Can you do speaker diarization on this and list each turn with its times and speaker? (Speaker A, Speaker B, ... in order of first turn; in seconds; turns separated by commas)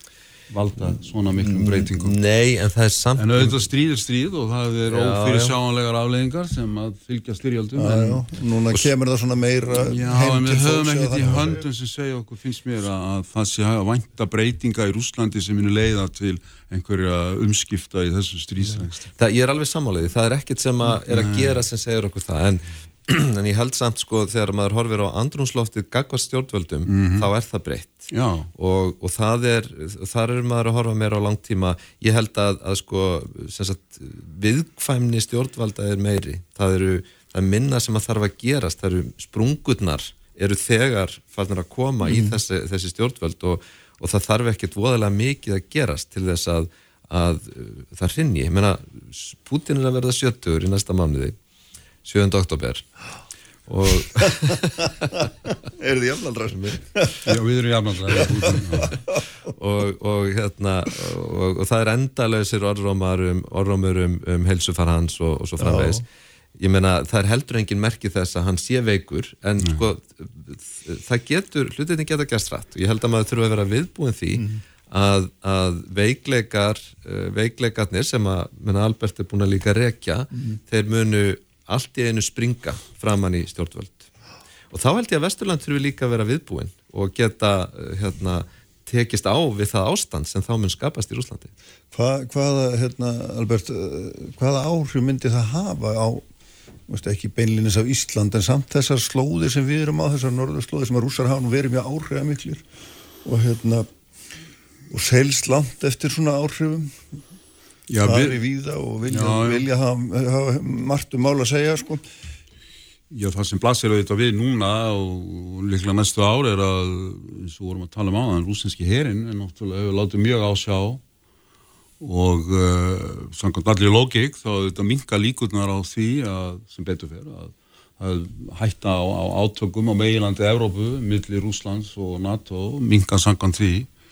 Speaker A: 0.5-2.2, Speaker B: 1.4-3.6, Speaker A: 3.1-8.8, Speaker B: 4.9-5.5, Speaker C: 7.7-11.6, Speaker A: 9.7-19.1, Speaker B: 19.1-51.4, Speaker A: 20.8-21.6, Speaker A: 26.9-27.3, Speaker A: 28.1-28.5, Speaker C: 42.0-42.4, Speaker B: 52.0-52.9, Speaker B: 53.7-55.5, Speaker C: 55.7-57.4, Speaker B: 56.5-56.8, Speaker A: 57.2-58.9, Speaker C: 58.1-59.2, Speaker B: 59.5-66.0, Speaker C: 65.6-66.0, Speaker B: 66.6-84.1, Speaker A: 69.6-69.8, Speaker B: 84.7-91.5, Speaker C: 91.9-96.2, Speaker C: 96.9-102.6, Speaker C: 103.2-103.9, Speaker C: 104.9-107.2, Speaker A: 107.9-108.4, Speaker C: 108.0-112.0, Speaker A: 109.0-109.7, Speaker A: 113.1-121.0, Speaker A: 122.0-133.9